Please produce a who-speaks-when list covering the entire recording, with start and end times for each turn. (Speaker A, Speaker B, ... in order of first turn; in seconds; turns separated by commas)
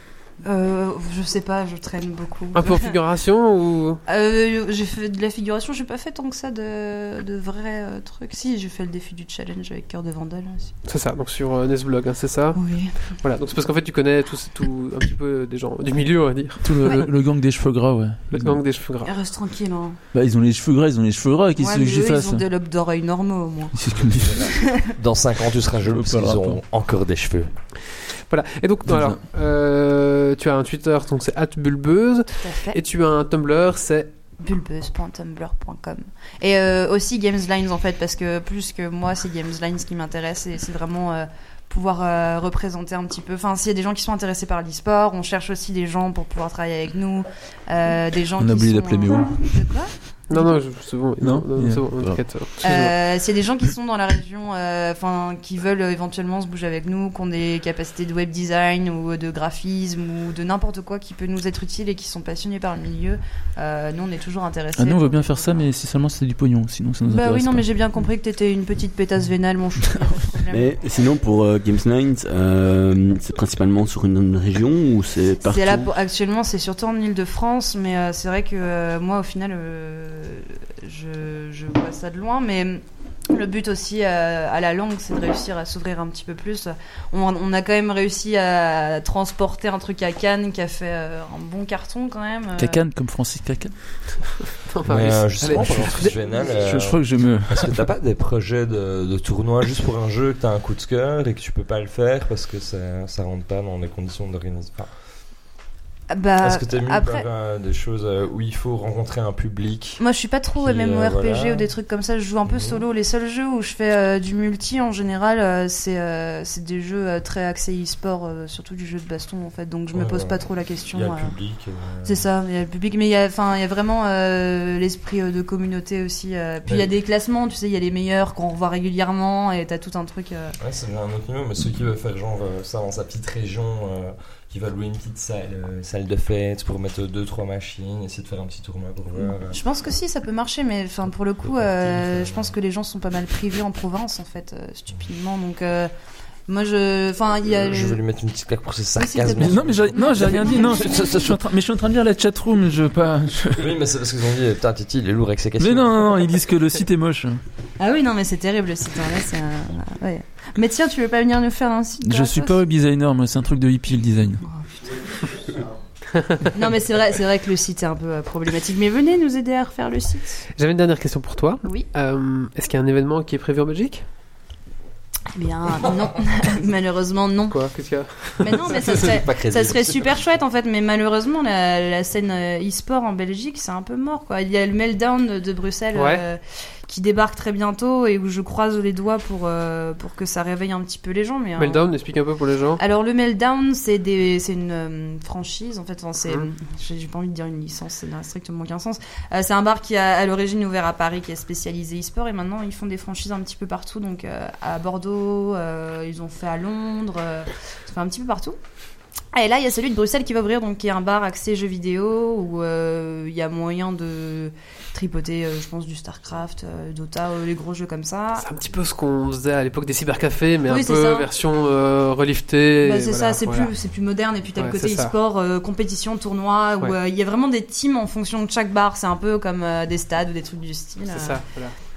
Speaker A: 0.4-2.9, Speaker B: 2.5-4.0, Speaker A: 4.1-10.7, Speaker B: 10.8-17.0, Speaker A: 12.6-13.0, Speaker C: 16.6-18.6, Speaker B: 18.3-19.1, Speaker A: 19.0-20.0, Speaker C: 20.1-22.5, Speaker A: 21.6-23.8, Speaker C: 23.8-24.5, Speaker D: 24.1-27.5, Speaker A: 24.4-24.8, Speaker C: 25.9-26.6, Speaker B: 28.3-34.1, Speaker C: 28.9-29.2, Speaker A: 32.4-32.8, Speaker A: 34.4-49.9, Speaker C: 48.4-49.6, Speaker B: 50.3-52.9, Speaker C: 51.2-52.2, Speaker A: 52.6-65.7, Speaker C: 64.8-67.7, Speaker A: 67.1-70.7, Speaker E: 70.5-75.9, Speaker A: 75.4-92.8, Speaker C: 92.6-94.3, Speaker B: 94.6-96.2, Speaker D: 94.9-104.9, Speaker C: 95.4-97.8, Speaker A: 106.1-107.2, Speaker D: 106.4-110.0, Speaker A: 110.0-121.3, Speaker D: 110.6-111.7, Speaker D: 112.5-112.8, Speaker D: 119.9-122.3, Speaker A: 122.0-130.6, Speaker D: 126.7-126.9, Speaker D: 130.6-139.6, Speaker A: 139.2-145.9, Speaker D: 141.4-142.5, Speaker A: 146.5-148.0, Speaker D: 147.6-151.3, Speaker A: 149.0-151.3, Speaker C: 149.3-153.7, Speaker D: 153.6-156.4, Speaker C: 155.6-157.4, Speaker A: 157.8-162.6, Speaker C: 162.0-164.4, Speaker A: 164.5-165.0, Speaker B: 166.2-166.5, Speaker A: 166.5-170.4, Speaker B: 170.6-174.1, Speaker A: 175.3-177.6, Speaker B: 177.5-178.7, Speaker A: 178.3-191.9, Speaker D: 178.7-180.2, Speaker B: 185.9-186.2, Speaker B: 191.6-192.8, Speaker A: 192.8-208.6, Speaker A: 209.3-218.5, Speaker B: 218.4-223.7, Speaker A: 220.7-221.3, Speaker A: 222.8-231.4, Speaker B: 224.6-225.1, Speaker B: 231.1-231.7